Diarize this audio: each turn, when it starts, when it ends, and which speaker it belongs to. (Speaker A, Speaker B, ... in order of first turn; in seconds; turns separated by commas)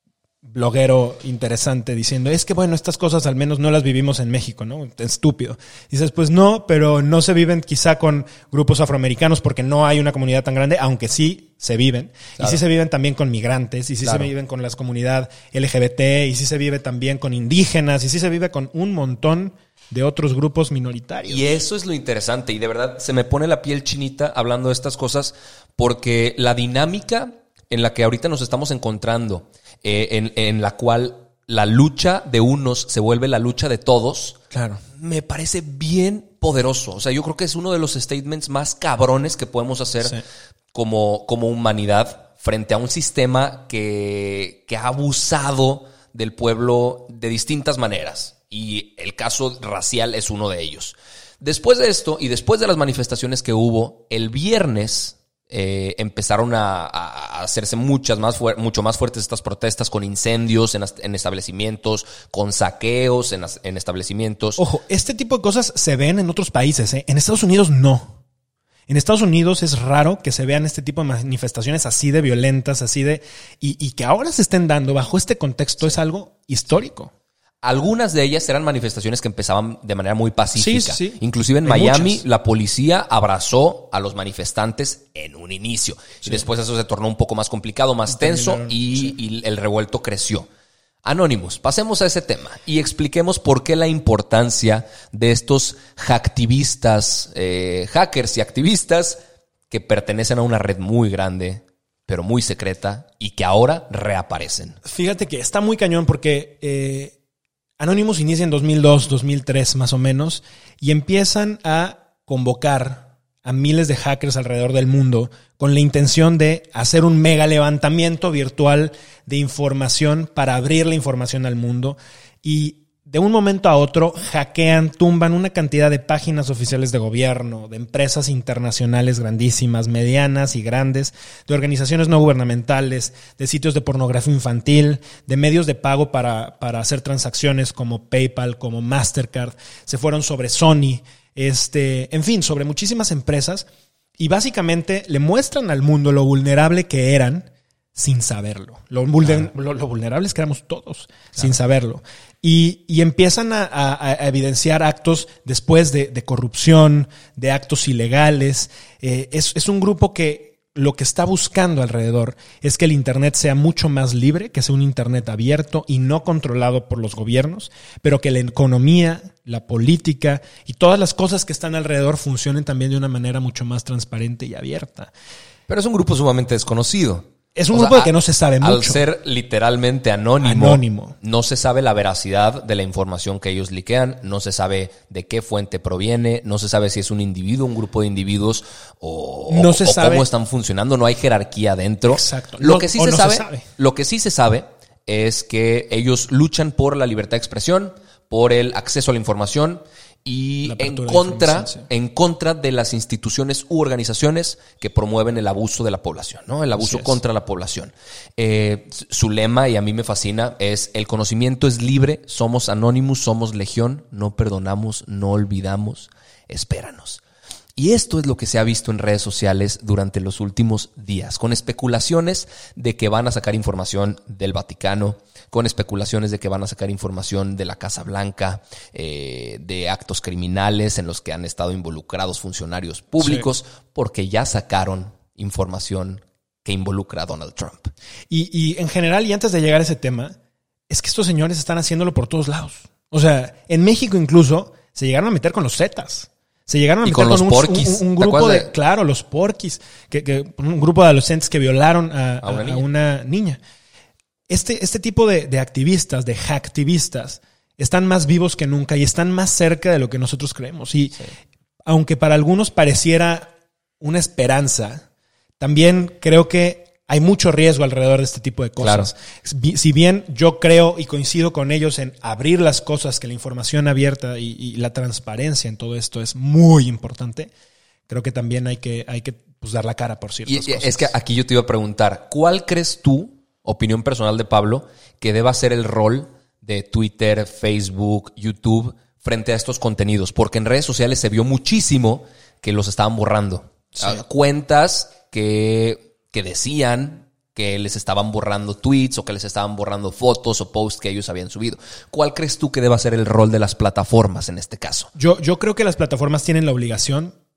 Speaker A: 0.4-21.6, Speaker B: 14.0-14.3, Speaker B: 21.3-34.4, Speaker A: 34.5-34.8, Speaker B: 35.0-40.2, Speaker B: 40.7-64.6, Speaker A: 64.6-68.2, Speaker A: 68.9-77.1, Speaker B: 77.6-90.5, Speaker A: 80.5-82.2, Speaker A: 88.1-89.2, Speaker B: 91.0-99.2, Speaker B: 99.7-104.8, Speaker A: 104.8-107.1, Speaker A: 107.8-143.7, Speaker A: 144.2-175.1, Speaker B: 175.7-217.2, Speaker A: 177.6-179.0, Speaker A: 180.4-181.2, Speaker A: 189.5-190.3, Speaker A: 192.1-193.7, Speaker A: 200.6-201.9, Speaker A: 206.8-207.2, Speaker B: 217.8-237.9, Speaker A: 233.2-233.5, Speaker A: 238.3-240.3, Speaker A: 240.9-253.6, Speaker B: 247.0-248.7, Speaker B: 252.4-252.8, Speaker A: 254.5-261.3, Speaker A: 261.8-265.0, Speaker A: 265.6-277.5, Speaker B: 268.8-269.1, Speaker A: 278.1-281.1, Speaker B: 280.4-305.1, Speaker A: 305.1-307.3